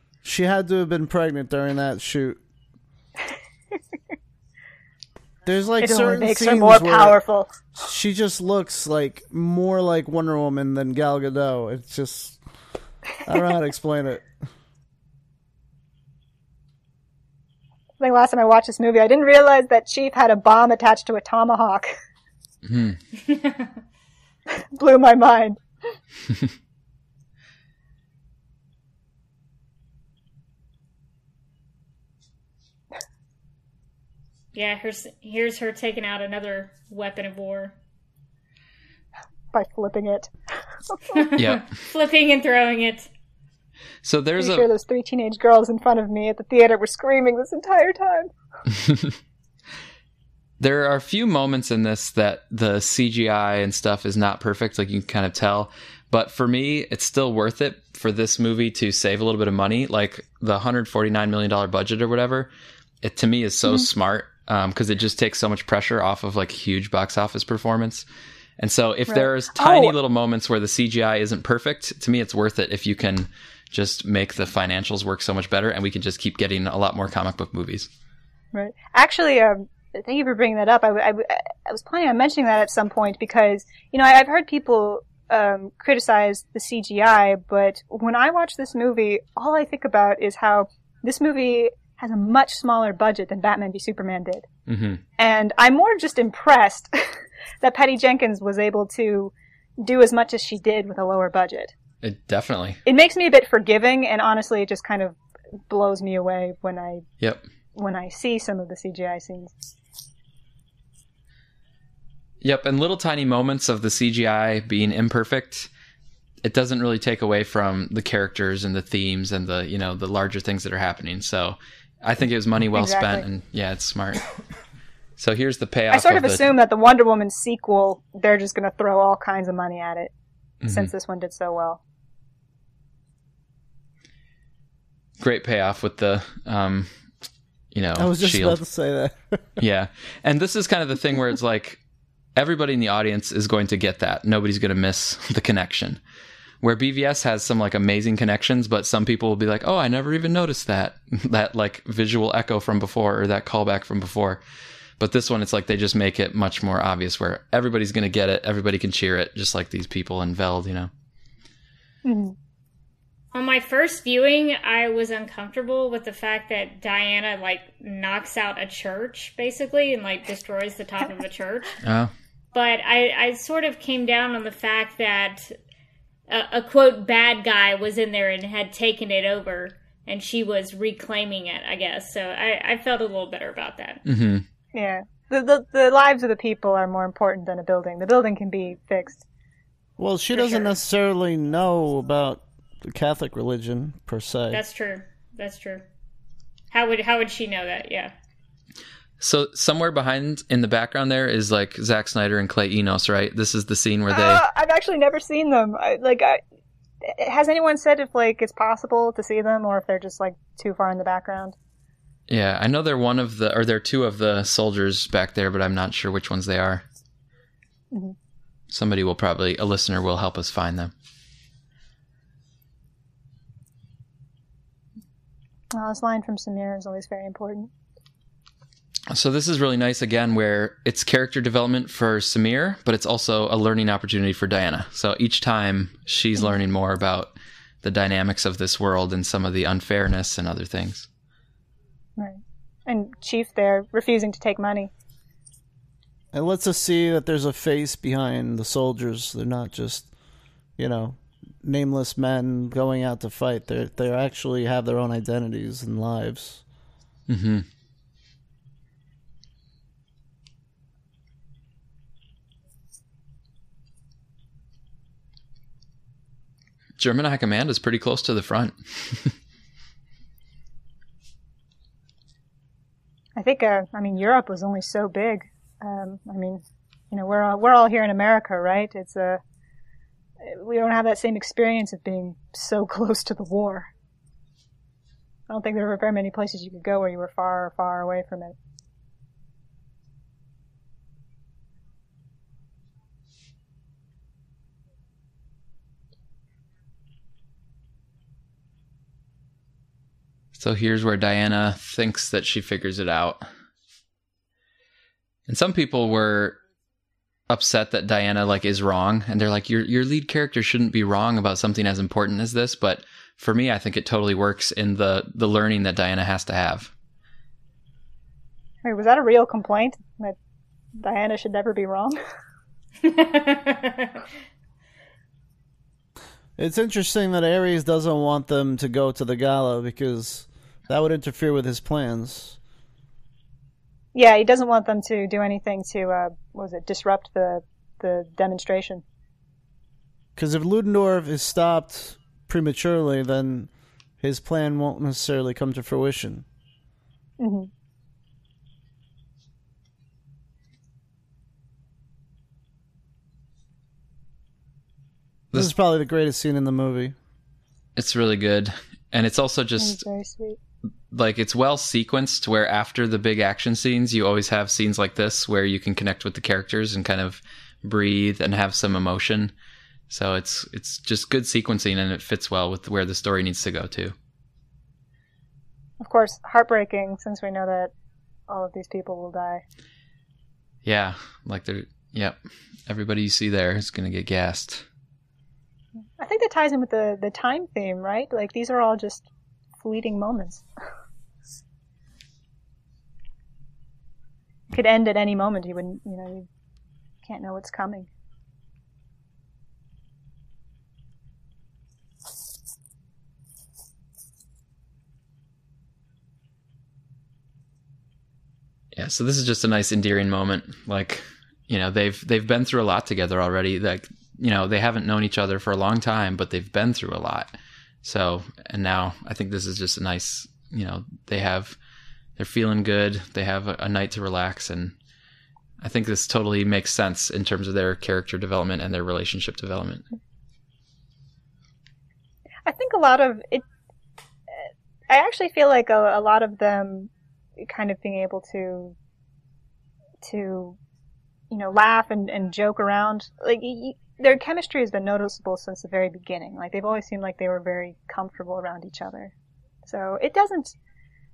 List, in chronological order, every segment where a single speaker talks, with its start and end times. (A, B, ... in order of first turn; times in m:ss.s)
0:00.2-0:02.4 A
0:05.4-0:07.2 A
0:05.8-0:07.5 B
0:07.7-0:12.4 A
0:13.2-0:14.3 A
0:18.0-0:21.9 B
0:22.6-0:23.0 C
0:24.7-0:25.6 B
0:34.5-0:37.7 D
0:39.5-0:40.3 B
0:40.9-0:41.3 B
0:41.1-0:43.1 D
0:41.4-0:41.7 C
0:44.0-0:44.7 C
0:44.4-0:48.3 B
0:48.7-0:49.1 C
0:50.6-1:02.5 C
1:03.0-1:08.0 C
1:08.6-1:17.9 C
1:09.1-1:09.9 B
1:18.5-1:34.4 B
1:34.7-1:35.0 C
1:35.2-1:41.7 B
1:42.0-1:42.8 C
1:42.8-1:47.0 B
1:47.7-1:49.5 B
1:52.4-1:55.7 C
1:56.4-2:04.2 C
2:02.7-2:03.2 B
2:05.2-2:06.4 C
2:05.9-2:10.1 B
2:10.6-2:10.9 C
2:10.7-2:11.8 B
2:15.2-2:16.9 C
2:17.7-2:18.6 C
2:18.0-2:19.6 A
2:19.6-2:21.8 C
2:22.4-2:26.0 C
2:26.6-2:34.4 C
2:35.0-2:40.9 C
2:42.0-2:42.3 B
2:43.3-2:51.8 D
2:51.8-2:52.1 C
2:52.5-2:55.6 D
2:56.3-3:04.0 D
3:04.0-3:04.4 C
3:04.7-3:09.2 B
3:10.0-3:14.6 A
3:10.3-3:10.7 B
3:14.5-3:15.8 D
3:16.7-3:18.1 D
3:19.2-3:24.4 C
3:24.1-3:26.4 B
3:27.0-3:31.5 B
3:32.3-3:36.8 C
3:38.7-3:40.9 C
3:45.7-3:47.7 B
3:49.1-3:57.3 C
3:57.8-4:01.1 C
4:02.2-4:04.9 B
4:06.3-4:10.1 A
4:10.8-4:16.6 A
4:17.3-4:17.6 C
4:27.0-4:29.3 C
4:33.4-4:39.4 B
4:40.4-4:43.9 B
4:45.5-4:48.6 B
5:00.5-5:03.5 C
5:05.5-5:06.6 C
5:07.5-5:16.9 C
5:18.8-5:20.4 B
5:21.0-5:22.2 B
5:23.0-5:24.2 D
5:26.6-5:32.6 A
5:34.1-5:39.0 B
5:40.4-5:43.7 A
5:44.2-5:46.4 A
5:47.4-5:47.7 B
5:55.5-5:57.1 A
5:58.0-6:00.0 C
5:59.8-6:00.6 B
6:01.1-6:09.5 C
6:10.1-6:14.1 C
6:16.0-6:17.9 B
6:18.5-6:19.6 B
6:20.8-6:24.8 C
6:26.2-6:29.3 B
6:29.8-6:30.6 B
6:34.7-6:36.5 B
6:37.2-6:38.1 B
6:48.9-7:01.8 C
7:02.4-7:04.9 C
7:05.8-7:10.0 C
7:12.6-7:13.6 B
7:15.1-7:19.0 B
7:20.2-7:20.8 B
7:21.5-7:29.3 B
7:29.8-7:30.8 B